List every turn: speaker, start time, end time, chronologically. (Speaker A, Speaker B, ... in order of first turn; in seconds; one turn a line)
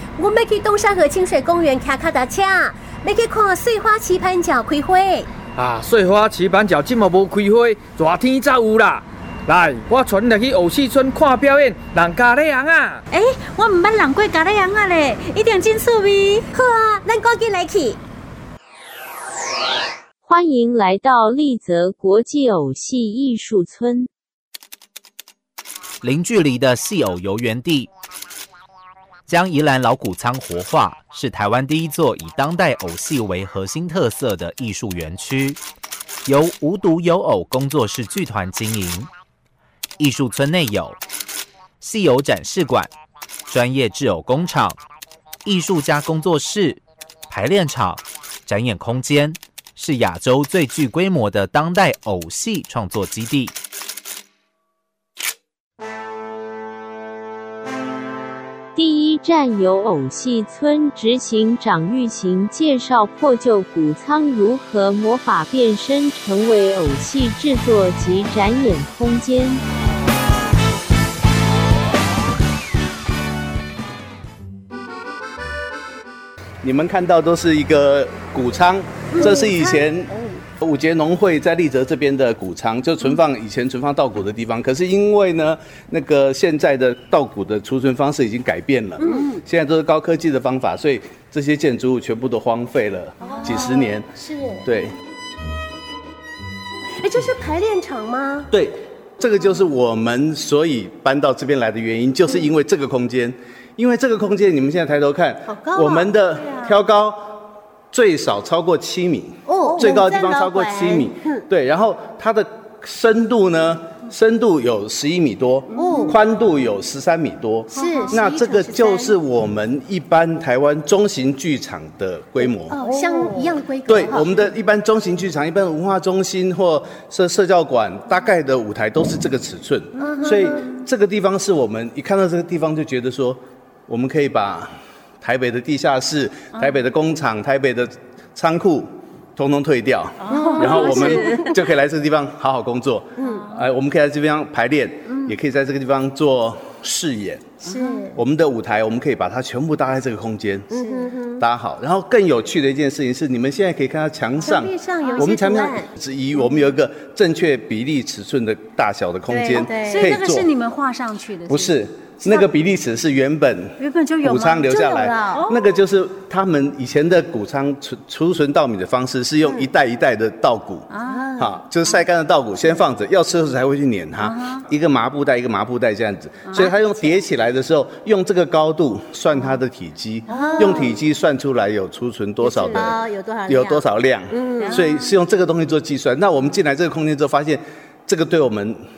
Speaker A: 0.2-5.3
Speaker B: 5.6-13.0
Speaker C: 13.1-16.5
Speaker A: 16.5-18.0
Speaker D: 20.3-24.1
Speaker E: 26.0-27.9
Speaker E: 29.3-35.6
Speaker E: 36.2-39.1
Speaker E: 40.0-41.0
Speaker E: 41.8-42.9
Speaker E: 43.5-44.8
Speaker E: 45.5-53.5
Speaker D: 58.8-69.6
Speaker F: 76.6-94.1
Speaker A: 79.1-79.8
Speaker A: 89.0-89.4
Speaker A: 93.2-94.6
Speaker F: 94.7-94.9
Speaker A: 97.0-98.5
Speaker F: 98.5-122.8
Speaker A: 105.5-106.1
Speaker A: 109.5-111.5
Speaker C: 109.7-110.0
Speaker A: 115.7-116.2
Speaker C: 115.8-116.1
Speaker A: 117.7-119.2
Speaker C: 117.8-118.1
Speaker A: 122.7-124.5
Speaker C: 122.8-123.5
Speaker F: 123.9-147.5
Speaker A: 130.0-130.8
Speaker C: 136.5-136.8
Speaker C: 140.2-141.6
Speaker A: 140.3-141.6
Speaker A: 143.2-143.5
Speaker A: 147.6-148.2
Speaker C: 147.7-148.1
Speaker F: 148.2-150.7
Speaker A: 150.7-151.4
Speaker C: 150.8-151.1
Speaker F: 151.4-160.5
Speaker A: 154.4-155.9
Speaker C: 159.3-162.5
Speaker A: 159.4-160.1
Speaker F: 161.5-188.8
Speaker C: 163.8-165.7
Speaker C: 170.9-171.6
Speaker C: 174.2-174.7
Speaker C: 180.3-180.9
Speaker A: 182.4-184.8